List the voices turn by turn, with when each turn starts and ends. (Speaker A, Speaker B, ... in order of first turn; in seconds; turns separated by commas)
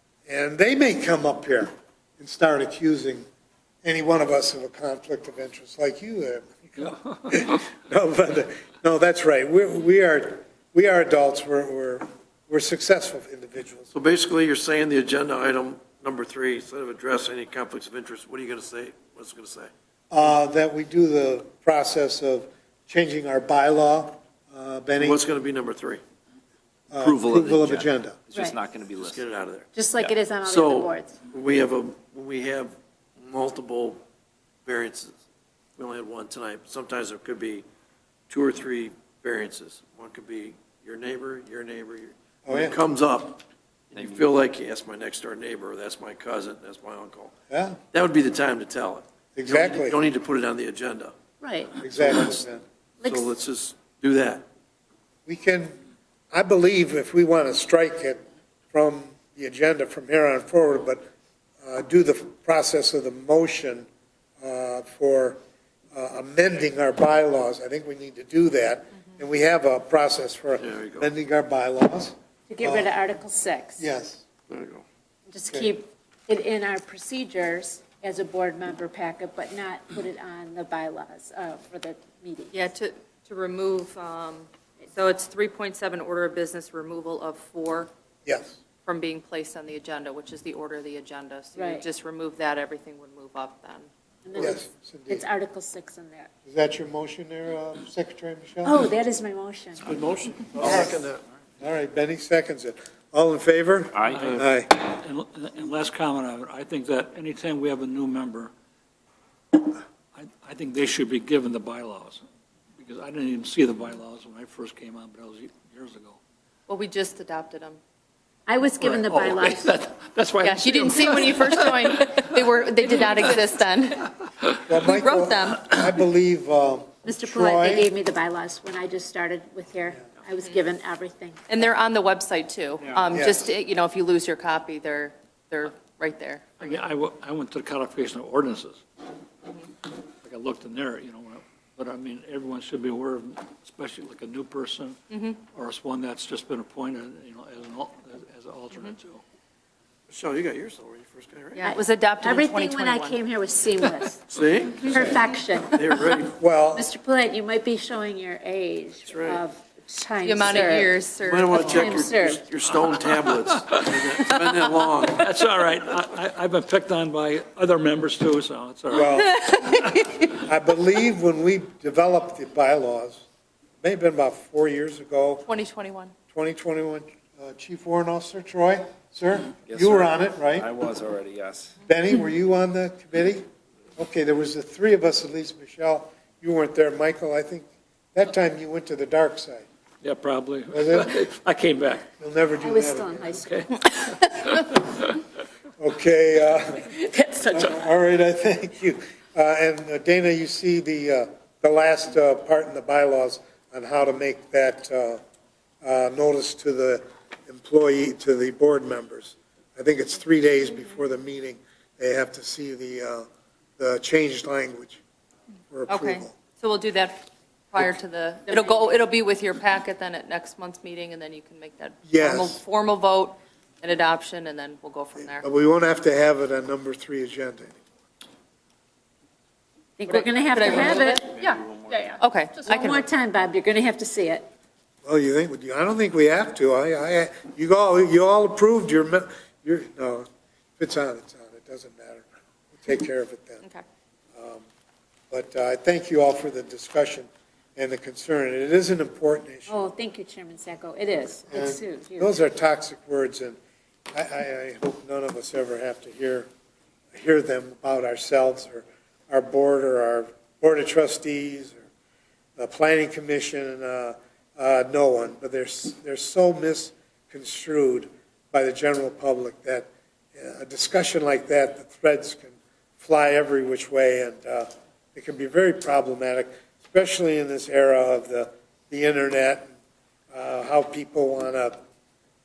Speaker A: 0.3-3.2, Speaker A: 3.8-13.9, Speaker B: 13.9-19.7, Speaker A: 20.1-25.2, Speaker B: 25.0-26.0, Speaker A: 26.9-28.2, Speaker C: 27.0-29.3, Speaker B: 29.0-34.0, Speaker D: 29.7-31.2, Speaker B: 34.6-35.2, Speaker B: 35.8-37.6, Speaker B: 38.3-47.3, Speaker A: 42.5-42.8, Speaker A: 47.5-47.8, Speaker B: 47.9-51.1, Speaker A: 49.4-50.0, Speaker D: 51.4-51.7, Speaker A: 51.8-52.6, Speaker B: 51.9-52.4, Speaker B: 53.0-54.5, Speaker A: 55.3-55.8, Speaker A: 56.3-61.0, Speaker A: 61.6-63.9, Speaker A: 64.4-65.4, Speaker A: 65.9-72.9, Speaker B: 70.6-71.1, Speaker D: 72.5-73.9, Speaker A: 73.8-74.2, Speaker B: 74.5-74.8, Speaker D: 75.3-82.6, Speaker E: 82.5-87.9, Speaker A: 88.3-88.6, Speaker E: 88.8-93.9, Speaker D: 91.5-91.9, Speaker D: 94.2-96.3, Speaker A: 94.3-95.2, Speaker A: 96.5-98.8, Speaker D: 98.6-99.9, Speaker B: 99.8-101.2, Speaker A: 100.6-101.0, Speaker D: 100.7-100.9, Speaker A: 101.6-104.7, Speaker F: 104.0-108.5, Speaker F: 110.1-112.2, Speaker F: 112.8-116.2, Speaker E: 116.7-117.8, Speaker D: 118.5-119.8, Speaker F: 118.8-122.3, Speaker E: 120.4-124.1, Speaker A: 124.7-127.9, Speaker E: 124.8-125.8, Speaker D: 127.0-131.7, Speaker E: 131.5-136.6, Speaker A: 133.1-133.5, Speaker F: 136.6-138.8, Speaker F: 140.2-145.0, Speaker E: 145.1-145.4, Speaker F: 145.5-149.2, Speaker B: 150.1-151.6, Speaker E: 151.6-153.2, Speaker D: 151.6-154.2, Speaker E: 153.8-154.0, Speaker B: 154.3-155.0, Speaker D: 154.8-162.4, Speaker B: 155.8-156.4, Speaker A: 156.4-156.9, Speaker B: 159.1-159.4, Speaker E: 160.2-162.0, Speaker B: 161.2-165.4, Speaker F: 162.7-164.0, Speaker F: 165.2-169.3, Speaker A: 168.9-169.4, Speaker E: 169.2-170.0, Speaker A: 170.3-173.2, Speaker A: 173.8-175.5, Speaker E: 175.5-176.1, Speaker A: 176.3-180.7, Speaker C: 180.6-181.7, Speaker A: 181.9-183.4, Speaker A: 184.0-189.7, Speaker F: 190.0-192.1, Speaker A: 190.7-191.1, Speaker A: 192.2-193.4, Speaker D: 192.6-193.6, Speaker F: 193.4-195.1, Speaker A: 195.8-196.9, Speaker D: 197.0-197.8, Speaker A: 197.5-205.2, Speaker A: 205.8-213.3, Speaker A: 213.8-215.0, Speaker A: 215.7-216.3, Speaker E: 215.9-225.5, Speaker D: 218.5-219.0, Speaker A: 222.1-222.6, Speaker A: 225.4-227.8, Speaker D: 230.0-234.5, Speaker E: 230.1-231.6, Speaker E: 232.2-233.1, Speaker A: 235.0-240.3, Speaker A: 240.8-243.6, Speaker A: 244.3-244.6, Speaker A: 245.3-249.8, Speaker D: 249.7-252.4, Speaker A: 251.5-253.6, Speaker A: 254.1-256.5, Speaker A: 257.1-261.8, Speaker A: 262.6-279.7, Speaker A: 280.3-281.8